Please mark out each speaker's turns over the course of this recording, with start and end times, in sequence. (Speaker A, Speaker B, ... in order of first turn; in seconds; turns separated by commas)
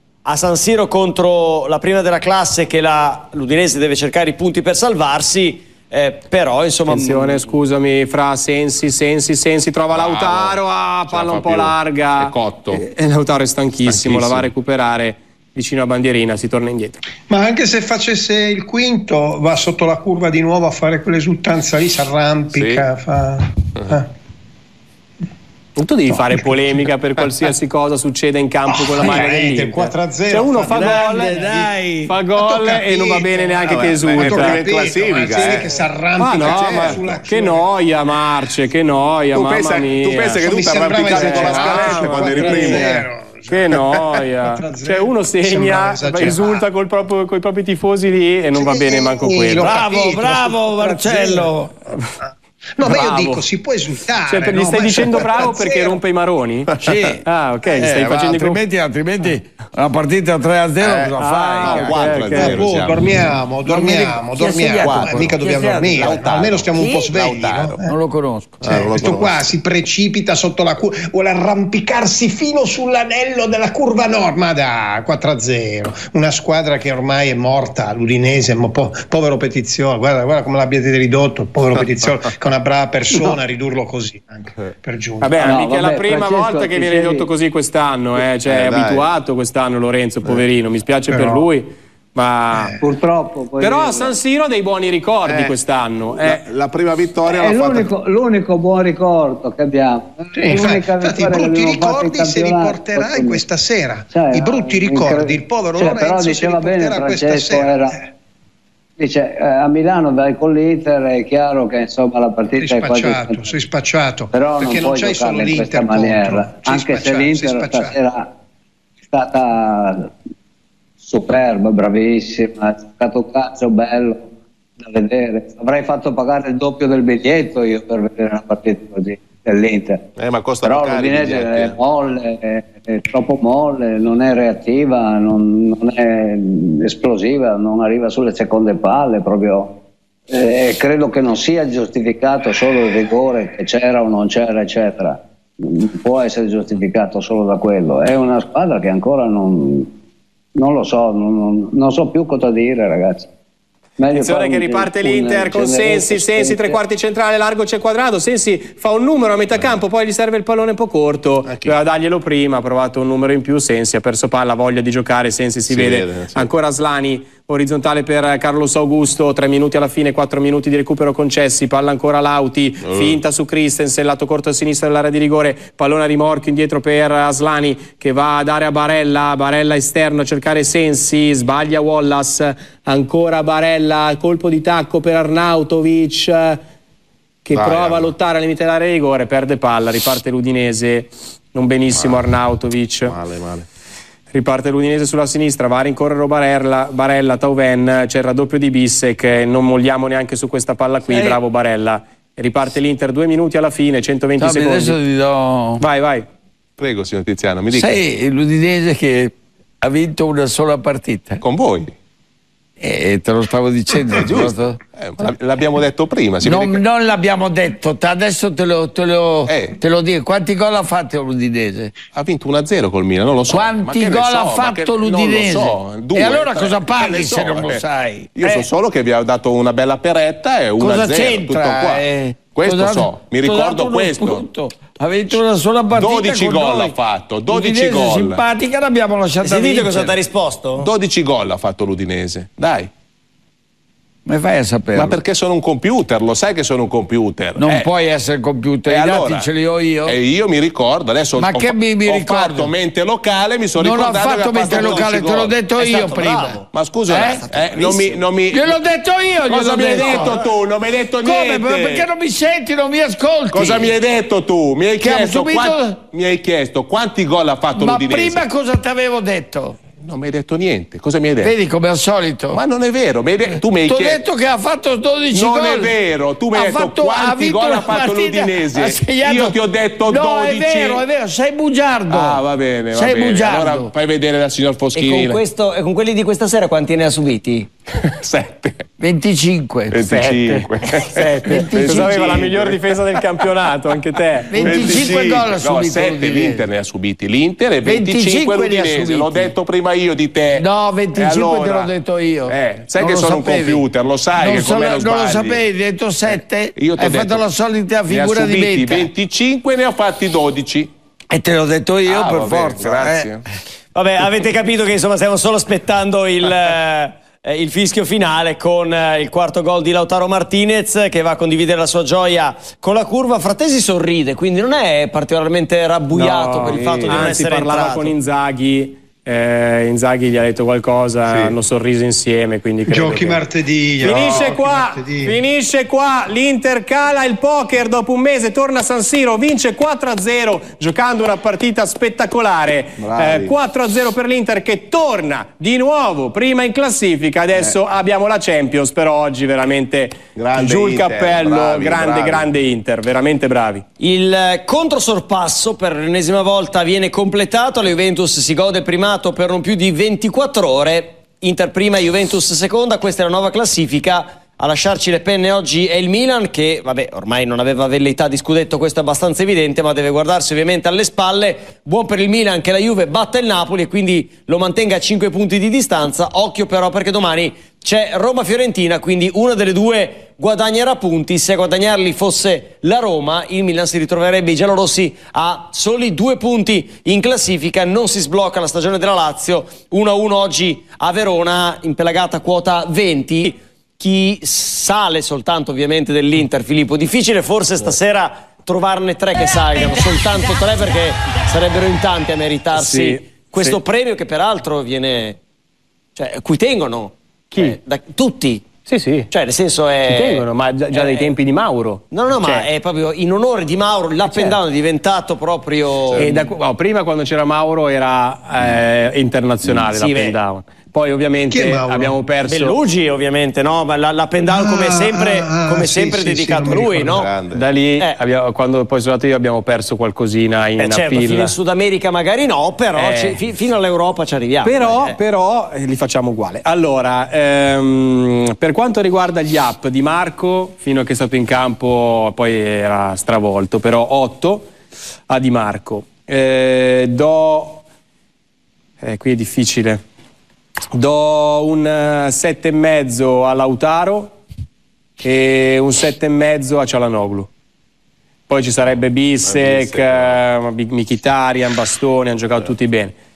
Speaker A: 0.2-7.5, Speaker B: 6.9-17.0, Speaker C: 9.9-12.8, Speaker C: 13.9-14.5, Speaker D: 17.3-24.1, Speaker C: 22.5-22.9, Speaker B: 25.8-31.5, Speaker D: 26.3-26.6, Speaker D: 28.7-31.7, Speaker E: 29.0-29.3, Speaker E: 30.7-32.1, Speaker B: 32.1-34.6, Speaker D: 32.3-37.6, Speaker C: 33.7-35.8, Speaker B: 36.2-40.4, Speaker C: 36.3-37.2, Speaker C: 39.3-43.0, Speaker D: 40.4-43.8, Speaker B: 41.0-49.7, Speaker D: 44.5-46.7, Speaker D: 48.5-51.5, Speaker E: 49.6-51.7, Speaker D: 52.2-56.0, Speaker B: 52.8-53.4, Speaker B: 54.3-58.6, Speaker E: 56.8-62.1, Speaker C: 60.8-63.2, Speaker B: 61.2-62.6, Speaker D: 62.3-67.9, Speaker E: 63.6-67.2, Speaker C: 64.8-67.9, Speaker E: 67.8-68.6, Speaker C: 68.6-69.5, Speaker D: 68.7-85.3, Speaker B: 85.2-92.8, Speaker F: 85.4-87.3, Speaker C: 88.5-89.1, Speaker D: 91.1-91.5, Speaker D: 92.5-92.8, Speaker F: 92.8-94.2, Speaker B: 93.6-96.4, Speaker C: 95.3-95.5, Speaker C: 96.2-97.9, Speaker F: 97.2-103.4, Speaker D: 100.3-108.0, Speaker F: 104.1-108.0, Speaker F: 109.0-113.5, Speaker D: 112.6-118.0, Speaker F: 114.3-118.3, Speaker F: 119.1-120.1, Speaker F: 121.0-124.3, Speaker F: 124.8-130.1, Speaker C: 130.2-131.8, Speaker F: 130.6-149.9, Speaker F: 150.6-153.3, Speaker F: 154.0-156.8, Speaker B: 154.1-186.6, Speaker C: 161.5-161.8, Speaker C: 165.7-166.5, Speaker C: 172.8-173.2, Speaker B: 187.4-193.2, Speaker C: 187.5-188.1, Speaker C: 191.9-192.2, Speaker C: 193.0-193.7, Speaker B: 194.3-205.0, Speaker E: 201.1-201.4, Speaker E: 204.4-205.8, Speaker B: 205.8-206.3, Speaker C: 206.8-208.0, Speaker E: 207.7-211.4, Speaker C: 211.4-211.9, Speaker E: 212.8-214.8, Speaker C: 214.2-216.8, Speaker E: 216.4-221.9, Speaker C: 219.5-219.8, Speaker C: 222.1-227.8, Speaker E: 223.5-228.7, Speaker C: 228.3-234.4, Speaker E: 230.8-236.9, Speaker C: 235.9-238.4, Speaker E: 237.5-240.2, Speaker A: 239.4-240.9, Speaker C: 240.8-242.9, Speaker E: 244.3-245.2, Speaker C: 244.9-247.9, Speaker E: 247.6-250.2, Speaker C: 248.9-249.5, Speaker C: 250.1-255.5, Speaker E: 251.4-252.7, Speaker E: 253.8-257.5, Speaker A: 254.6-255.2, Speaker A: 255.8-256.7, Speaker C: 256.7-258.8, Speaker A: 257.2-258.2, Speaker E: 258.5-260.4, Speaker C: 259.5-262.1, Speaker E: 261.2-264.0, Speaker C: 263.5-268.4, Speaker E: 265.0-266.0, Speaker E: 267.7-269.8, Speaker C: 270.0-271.5, Speaker E: 271.4-272.6, Speaker C: 272.5-274.2, Speaker E: 273.7-275.9, Speaker C: 275.3-281.0, Speaker E: 276.5-282.4, Speaker C: 282.1-285.4, Speaker E: 282.9-283.9, Speaker A: 284.9-287.7, Speaker C: 287.9-288.8, Speaker E: 289.0-290.1, Speaker C: 289.9-292.8, Speaker B: 290.1-295.0, Speaker E: 291.5-292.2, Speaker E: 294.5-296.7, Speaker C: 294.6-301.9, Speaker E: 297.8-299.5, Speaker E: 300.6-303.9, Speaker C: 302.5-305.6, Speaker E: 304.4-309.1, Speaker C: 306.8-307.4, Speaker C: 308.1-310.9, Speaker E: 311.3-313.4, Speaker C: 312.1-313.4, Speaker A: 313.9-328.1, Speaker B: 326.1-333.4, Speaker C: 331.3-331.6, Speaker D: 332.9-335.4, Speaker B: 334.0-353.9, Speaker C: 343.0-343.6, Speaker C: 350.4-352.5, Speaker A: 354.0-405.4, Speaker B: 402.8-403.8, Speaker A: 406.2-408.7, Speaker B: 408.9-409.3, Speaker A: 409.3-411.3, Speaker B: 410.1-412.7, Speaker A: 412.1-416.4, Speaker B: 414.2-414.6, Speaker C: 416.1-416.4, Speaker B: 416.2-422.8, Speaker A: 419.9-420.4, Speaker D: 421.5-422.1, Speaker A: 422.4-427.3, Speaker D: 424.5-427.3, Speaker C: 427.0-427.7, Speaker B: 427.5-431.5, Speaker A: 430.8-435.2, Speaker B: 433.0-433.4, Speaker B: 434.6-444.7, Speaker B: 445.3-447.8, Speaker B: 449.0-450.0, Speaker B: 450.9-454.3, Speaker B: 455.2-457.5, Speaker B: 458.5-463.1, Speaker C: 459.4-460.4